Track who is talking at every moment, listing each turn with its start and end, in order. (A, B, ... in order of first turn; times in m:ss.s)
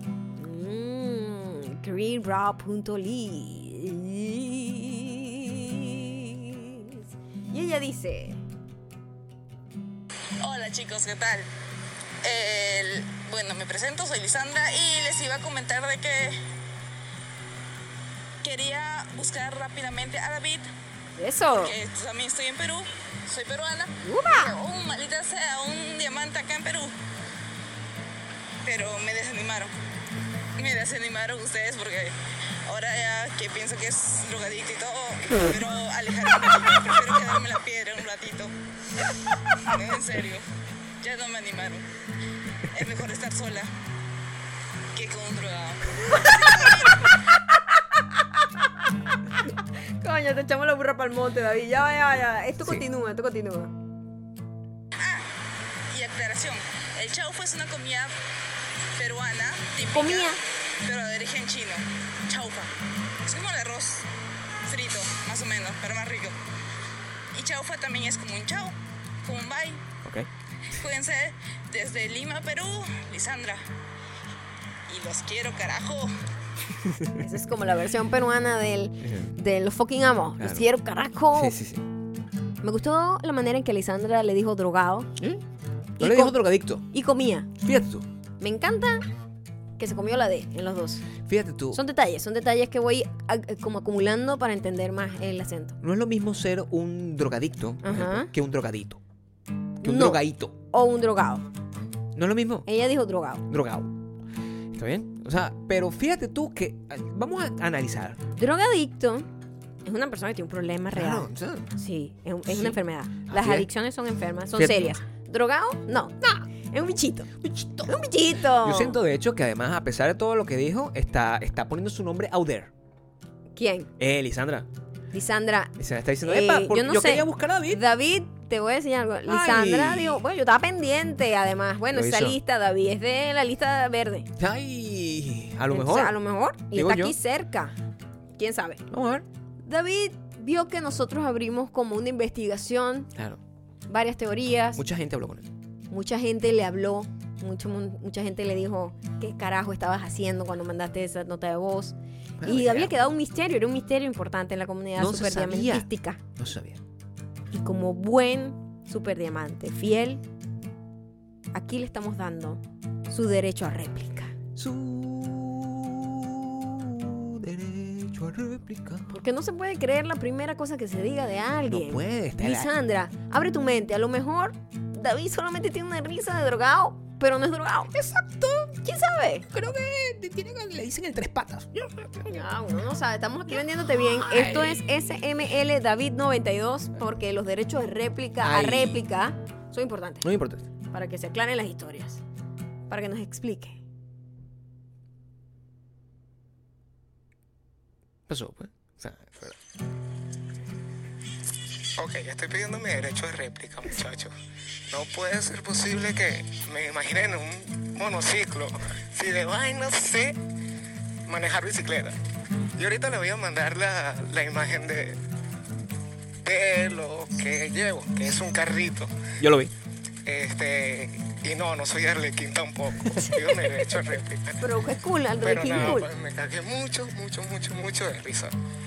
0:00.4-0:08.4 A
0:10.4-0:11.5 B
0:12.2-0:16.4 B
0:18.4-0:20.7 B
0:21.2-0:21.7 A
0:21.5-0:26.9 B
0:24.0-0:24.5 A
0:28.6-0:29.7 B
0:30.6-0:38.5 B
0:39.0-0:40.4 B
0:41.0-0:41.8 B
0:42.6-0:43.7 B
0:44.9-0:47.2 B
0:46.2-0:46.7 A
0:48.0-0:48.9 A
0:49.4-0:53.7 A
0:55.0-0:55.3 B
0:55.9-0:58.1 B
0:58.9-1:02.7 B
0:59.9-1:00.4 A
1:03.2-1:04.1 B
1:04.6-1:06.3 B
1:07.3-1:09.8 B
1:10.0-1:10.3 C
1:10.7-1:13.6 B
1:14.9-1:16.1 B
1:16.8-1:17.2 C
1:17.1-1:21.5 A
1:19.0-1:19.4 C
1:20.4-1:20.7 C
1:21.3-1:21.8 C
1:22.6-1:25.1 A
1:25.2-1:25.4 C
1:26.0-1:26.4 A
1:26.0-1:26.8 C
1:26.9-1:27.5 A
1:27.6-1:28.0 C
1:28.4-1:29.1 A
1:29.8-1:31.0 A
1:31.2-1:31.8 C
1:31.7-1:35.8 A
1:35.8-1:39.0 C
1:37.8-1:38.3 A
1:39.8-1:41.4 A
1:39.8-1:40.5 C
1:42.1-1:42.7 C
1:42.6-1:43.4 A
1:43.5-1:43.9 C
1:44.7-1:48.2 C
1:48.4-1:49.3 A
1:49.8-1:57.3 A
1:50.9-1:51.7 C
1:52.5-1:53.7 C
1:54.5-1:55.0 C
1:57.4-2:02.7 C
1:57.8-1:59.0 A
2:03.6-2:03.9 A
2:04.0-2:04.7 C
2:05.1-2:14.3 A
2:05.8-2:07.8 C
2:09.2-2:10.2 C
2:11.9-2:12.4 C
2:14.4-2:16.2 C
2:15.7-2:17.8 A
2:16.7-2:17.2 C
2:18.4-2:18.8 A
2:18.9-2:19.2 C
2:19.6-2:23.1 A
2:23.1-2:23.4 C
2:23.9-2:24.8 A
2:24.8-2:25.5 C
2:25.9-2:36.2 A
2:32.4-2:32.9 C
2:35.0-2:36.8 C
2:37.5-2:40.2 A
2:41.5-2:44.3 A
2:44.5-2:49.1 C
2:49.1-2:57.9 A
2:51.7-2:52.7 C
2:57.9-2:58.8 C
2:58.8-2:59.5 A
2:59.5-3:02.4 C
3:02.2-3:10.3 A
3:03.7-3:04.8 C
3:08.4-3:09.0 C
3:10.2-3:10.6 C
3:10.9-3:12.2 A
3:12.9-3:13.8 A
3:18.3-3:19.6 C
3:22.0-3:24.3 D
3:24.9-3:30.4 D
3:31.2-3:32.2 D
3:32.7-3:35.2 D
3:36.4-3:39.1 D
3:39.4-3:39.7 C
3:40.2-3:44.6 D
3:43.0-3:43.4 C
3:44.6-3:46.1 A
3:45.4-3:48.5 D